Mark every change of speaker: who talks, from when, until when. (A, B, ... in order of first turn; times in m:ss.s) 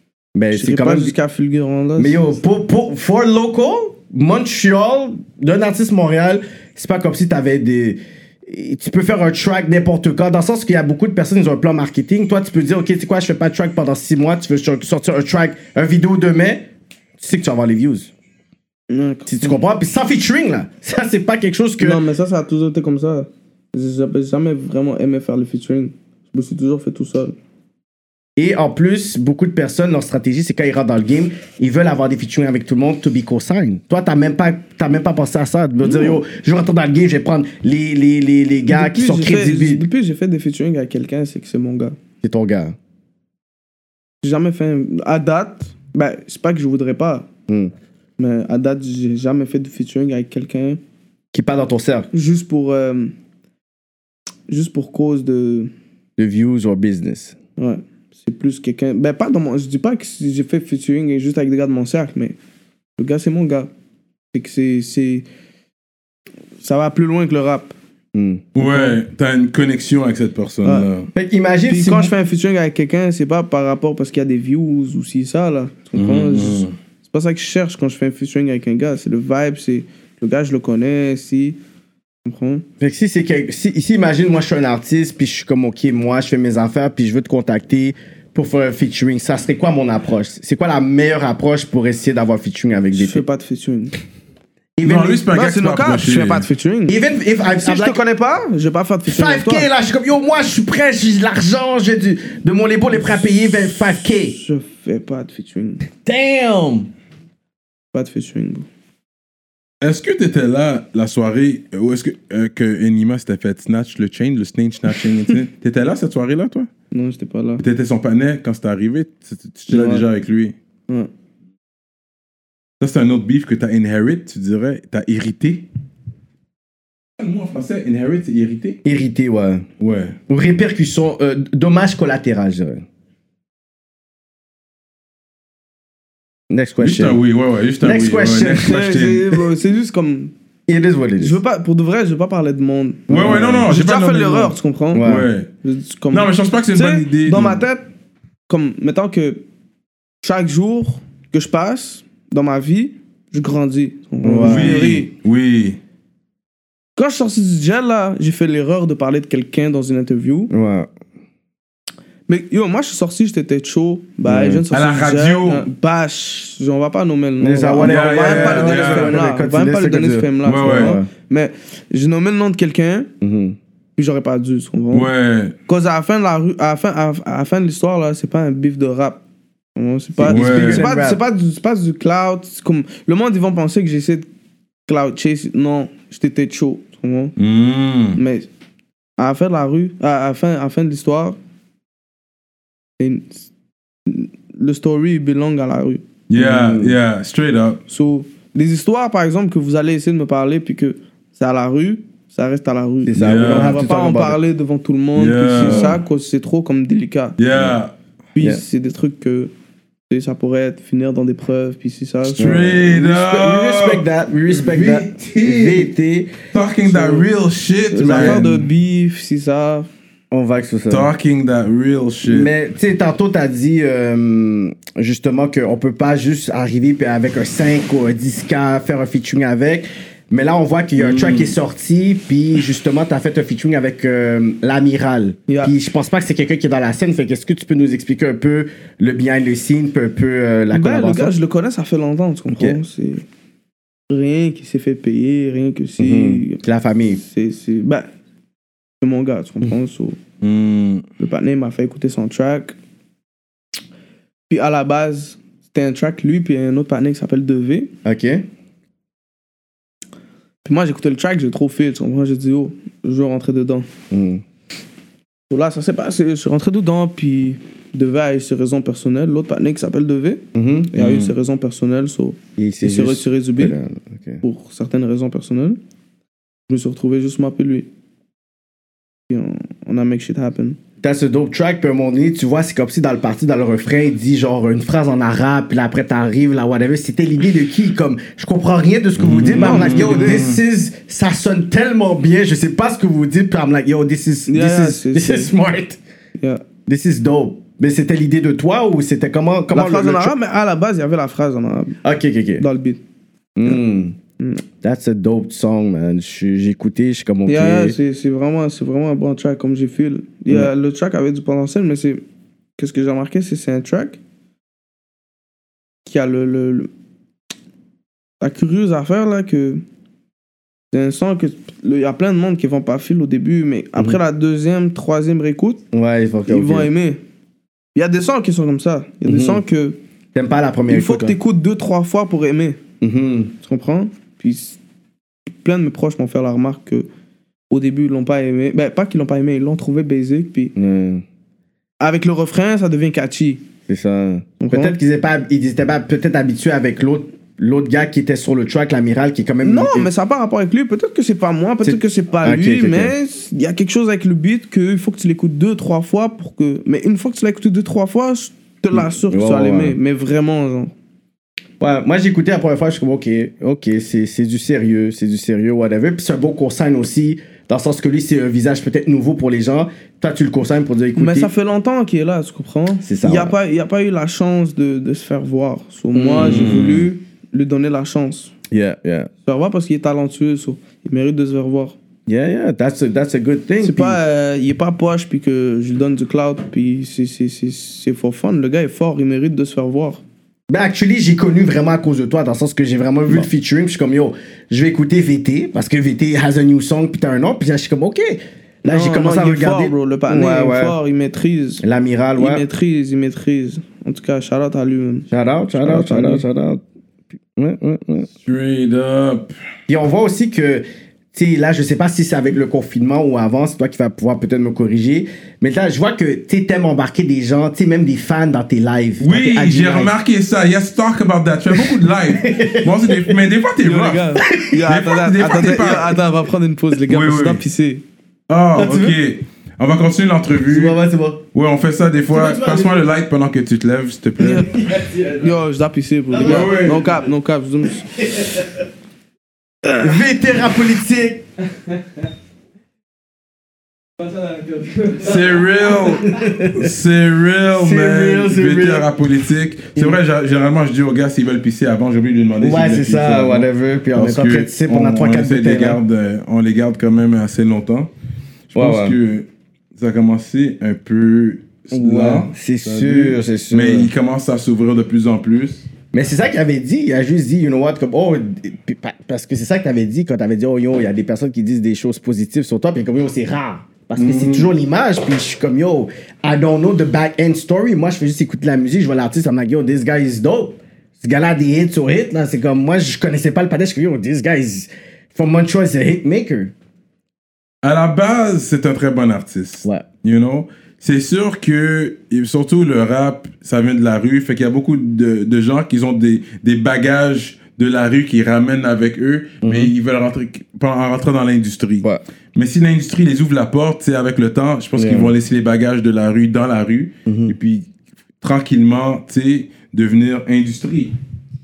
0:00.3-0:01.1 A
0:00.5-0:02.4 B
0:02.0-0:18.1 A
0:18.9-0:19.5 B
0:19.3-0:22.0 A
0:21.8-0:27.3 B
0:28.4-0:39.8 A
0:35.8-0:36.2 B
0:38.7-0:42.0 B
0:42.2-0:42.7 A
0:44.2-0:47.3 B
0:48.2-0:50.8 B
0:51.3-0:52.1 A
0:52.1-0:53.1 B
0:54.5-0:55.7 B
0:56.2-0:57.3 A
0:57.6-1:02.4 B
1:03.0-1:03.7 B
1:04.3-1:05.2 B
1:06.6-1:07.7 B
1:08.1-1:08.4 A
1:08.5-1:11.1 C
1:08.6-1:09.0 B
1:10.6-1:10.9 B
1:11.1-1:12.1 A
1:11.7-1:21.6 B
1:15.9-1:16.7 C
1:22.2-1:22.6 B
1:22.8-1:33.2 A
1:32.9-1:33.9 B
1:34.8-1:35.2 A
1:34.8-1:36.5 C
1:35.3-1:37.0 B
1:36.9-1:38.0 A
1:37.6-1:39.7 B
1:39.0-1:44.4 A
1:43.1-1:45.8 B
1:46.0-1:46.9 A
1:47.9-1:48.6 B
1:49.8-1:56.7 C
1:56.9-1:57.6 B
1:57.6-2:00.5 C
1:59.7-2:00.0 A
2:02.8-2:05.6 C
2:07.2-2:08.8 C
2:08.8-2:09.6 A
2:09.8-2:10.2 C
2:10.3-2:12.8 A
2:16.5-2:17.2 A
2:16.8-2:19.4 C
2:17.8-2:18.7 A
2:18.5-2:20.3 B
2:20.7-2:21.4 A
2:21.2-2:25.1 B
2:23.1-2:23.7 A
2:23.1-2:25.5 C
2:24.9-2:25.3 A
2:25.6-2:27.8 B
2:26.1-2:27.6 C
2:28.5-2:29.4 B
2:30.2-2:35.1 B
2:34.2-2:34.9 A
2:34.4-2:35.8 C
2:37.0-2:40.5 B
2:40.5-2:40.9 A
2:42.3-2:53.1 B
2:44.2-2:44.6 A
2:44.7-2:45.7 C
2:47.4-2:51.1 A
2:47.8-2:49.2 C
2:50.4-2:51.0 C
2:53.2-2:53.6 A
2:54.0-2:55.1 B
2:54.9-2:55.5 C
2:55.7-2:59.2 B
2:59.8-3:04.3 B
3:00.2-3:01.2 A
3:00.3-3:00.8 C
3:04.9-3:07.3 B
3:07.4-3:08.2 C
3:08.2-3:08.5 B
3:09.2-3:11.4 B
3:13.0-3:13.5 B
3:14.1-3:16.0 B
3:16.3-3:17.8 C
3:16.3-3:17.0 A
3:17.9-3:27.4 B
3:23.0-3:24.4 A
3:23.2-3:23.8 C
3:25.2-3:26.0 C
3:25.6-3:26.0 A
3:27.4-3:27.9 C
3:27.5-3:27.8 A
3:28.3-3:29.5 B
3:30.1-3:32.7 B
3:32.4-3:35.9 C
3:32.4-3:36.4 A
3:36.5-3:38.6 C
3:36.8-3:37.2 B
3:37.9-3:39.9 B
3:38.0-3:38.5 A
3:40.3-3:41.1 A
3:40.9-3:42.5 C
3:42.2-4:01.4 A
3:51.0-3:51.5 C
3:55.5-3:55.7 B
4:00.7-4:03.2 B
4:02.5-4:02.8 A
4:04.1-4:06.6 B
4:06.0-4:07.2 A
4:07.2-4:08.1 B
4:09.0-4:10.2 B
4:10.4-4:11.0 C
4:11.2-4:12.7 B
4:14.5-4:17.9 B
4:18.0-4:18.4 A
4:20.6-4:23.9 B
4:24.1-4:24.4 A
4:25.5-4:33.8 B
4:30.5-4:31.1 A
4:31.0-4:31.3 C
4:32.6-4:34.4 A
4:34.4-4:35.8 B
4:36.7-4:37.9 B
4:39.3-4:40.8 B
4:41.0-4:56.0 A
4:49.2-4:50.6 C
4:49.5-4:50.5 B
4:54.5-4:55.5 B
4:56.4-4:56.6 B
4:56.9-5:00.3 A
4:59.7-5:02.0 B
5:02.0-5:02.6 A
5:02.6-5:03.0 B
5:03.6-5:04.2 A
5:04.8-5:08.0 A
5:07.5-5:12.2 B
5:12.8-5:14.2 B
5:16.0-5:16.9 B
5:18.4-5:19.8 B
5:20.9-5:25.8 B
5:25.9-5:26.9 A
5:26.5-5:27.2 B
5:27.9-5:30.0 B
5:29.2-5:29.6 A
5:30.3-5:31.4 A
5:30.9-5:32.8 B
5:33.0-5:33.5 A
5:33.6-5:34.8 B
5:35.6-5:37.1 B
5:37.7-5:40.7 B
5:40.8-5:41.2 A
5:42.0-5:43.6 B
5:43.9-5:50.1 A
5:44.6-5:45.0 B
5:49.6-6:00.9 B
5:51.8-5:53.1 A
5:58.9-6:00.0 A
6:01.8-6:11.5 A
6:11.2-6:18.5 B
6:13.0-6:13.6 A
6:16.1-6:16.9 A
6:16.4-6:17.0 C
6:18.7-6:19.3 A
6:19.4-6:22.0 B
6:22.3-6:24.2 A
6:23.8-6:30.2 B
6:30.7-6:41.0 A
6:38.9-6:41.8 B
6:41.8-6:42.6 A
6:42.4-6:46.4 B
6:45.3-6:46.8 A
6:47.6-6:48.3 A
6:48.4-6:49.5 C
6:49.9-7:00.1 A
6:59.2-7:06.1 C
7:01.7-7:03.4 A
7:03.8-7:08.0 B
7:04.4-7:04.8 A
7:05.4-7:06.0 A
7:07.1-7:07.6 C
7:08.5-7:11.0 C
7:08.7-7:09.2 A
7:10.6-7:11.4 A
7:11.5-7:14.8 C
7:12.3-7:13.0 A
7:14.4-7:18.5 B
7:14.7-7:15.5 A
7:16.3-7:16.8 A
7:16.4-7:17.1 C
7:18.2-7:18.7 A
7:20.0-7:21.4 A
7:24.2-7:25.4 B
7:25.2-7:38.1 C
7:26.2-7:26.9 A
7:27.7-7:29.1 A
7:32.6-7:36.0 A
7:38.7-7:45.8 C
7:38.7-7:39.2 A
7:41.9-7:44.1 A
7:46.1-8:06.7 A
7:54.2-7:54.7 C
8:07.8-8:27.9 C
8:19.6-8:19.9 A
8:25.0-8:25.3 A
8:27.2-8:27.5 A
8:28.4-8:31.1 C